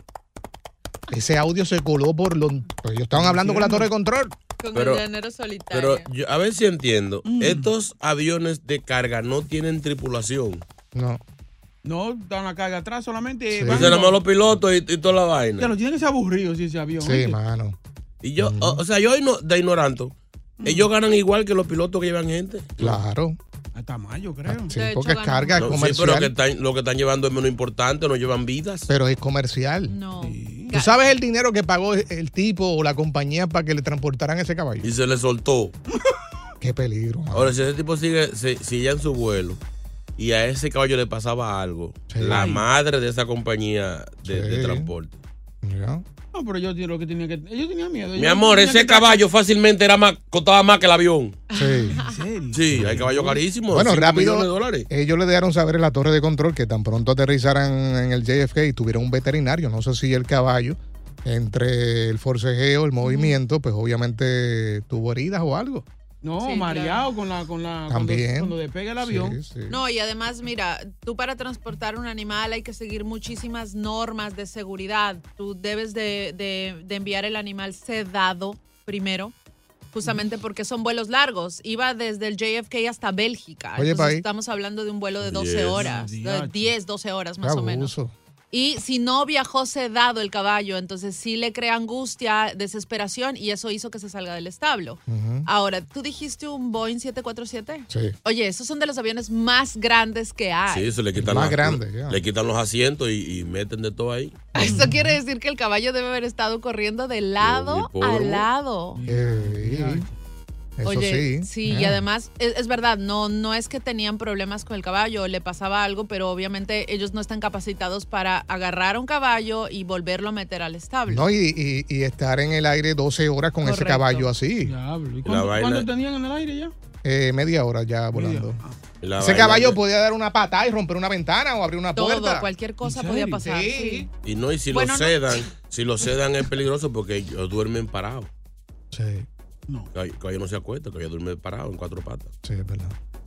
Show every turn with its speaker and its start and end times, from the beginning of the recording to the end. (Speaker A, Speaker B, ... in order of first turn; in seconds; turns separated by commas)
Speaker A: 1.1-4.3, Speaker B: 3.1-3.9, Speaker C: 4.6-6.1, Speaker D: 4.7-5.0, Speaker D: 5.7-10.6, Speaker B: 7.2-7.7, Speaker A: 10.9-11.2, Speaker B: 11.8-14.2, Speaker A: 13.5-13.9, Speaker D: 13.7-15.7, Speaker B: 15.6-17.4, Speaker A: 17.0-17.8, Speaker D: 18.2-23.0, Speaker A: 18.4-18.8, Speaker B: 20.6-20.9, Speaker A: 22.8-23.4, Speaker B: 23.7-24.7, Speaker A: 24.5-26.3, Speaker C: 24.7-25.8, Speaker D: 25.6-28.9, Speaker A: 28.9-29.9, Speaker C: 29.9-30.9, Speaker B: 30.2-30.7, Speaker A: 30.7-34.9, Speaker D: 34.8-35.7, Speaker A: 36.6-37.5, Speaker D: 37.3-39.6, Speaker D: 40.2-45.2, Speaker A: 42.1-42.5, Speaker B: 42.2-42.6, Speaker A: 44.2-44.9, Speaker A: 45.6-46.0, Speaker B: 46.3-49.2, Speaker D: 48.1-51.4, Speaker C: 51.5-52.2, Speaker A: 51.5-52.0, Speaker B: 51.9-53.4, Speaker D: 52.5-54.9, Speaker A: 52.7-53.1, Speaker A: 53.7-65.8, Speaker C: 63.0-63.4, Speaker B: 66.2-69.4, Speaker C: 66.4-67.0, Speaker A: 67.9-69.8, Speaker C: 69.7-79.3, Speaker C: 79.9-87.9, Speaker A: 83.8-84.2, Speaker D: 85.3-85.9, Speaker B: 85.7-86.7, Speaker A: 87.4-88.1, Speaker C: 88.5-100.9, Speaker A: 95.1-95.5, Speaker A: 97.9-98.1, Speaker D: 100.7-104.5, Speaker A: 101.1-102.2, Speaker C: 104.5-109.0, Speaker B: 104.6-104.9, Speaker A: 104.6-105.1, Speaker D: 107.4-108.5, Speaker B: 108.9-110.1, Speaker A: 109.0-110.0, Speaker A: 110.8-112.0, Speaker C: 110.8-121.3, Speaker A: 121.1-124.8, Speaker C: 123.6-124.3, Speaker B: 124.6-126.7, Speaker D: 125.2-125.9, Speaker A: 127.0-128.6, Speaker B: 128.1-128.8, Speaker D: 129.0-129.8, Speaker A: 129.2-132.5, Speaker C: 131.9-134.1, Speaker B: 132.8-133.6, Speaker A: 133.4-134.1, Speaker D: 134.2-138.3, Speaker C: 134.7-135.4, Speaker A: 138.9-139.3, Speaker D: 139.9-142.3, Speaker A: 142.4-142.9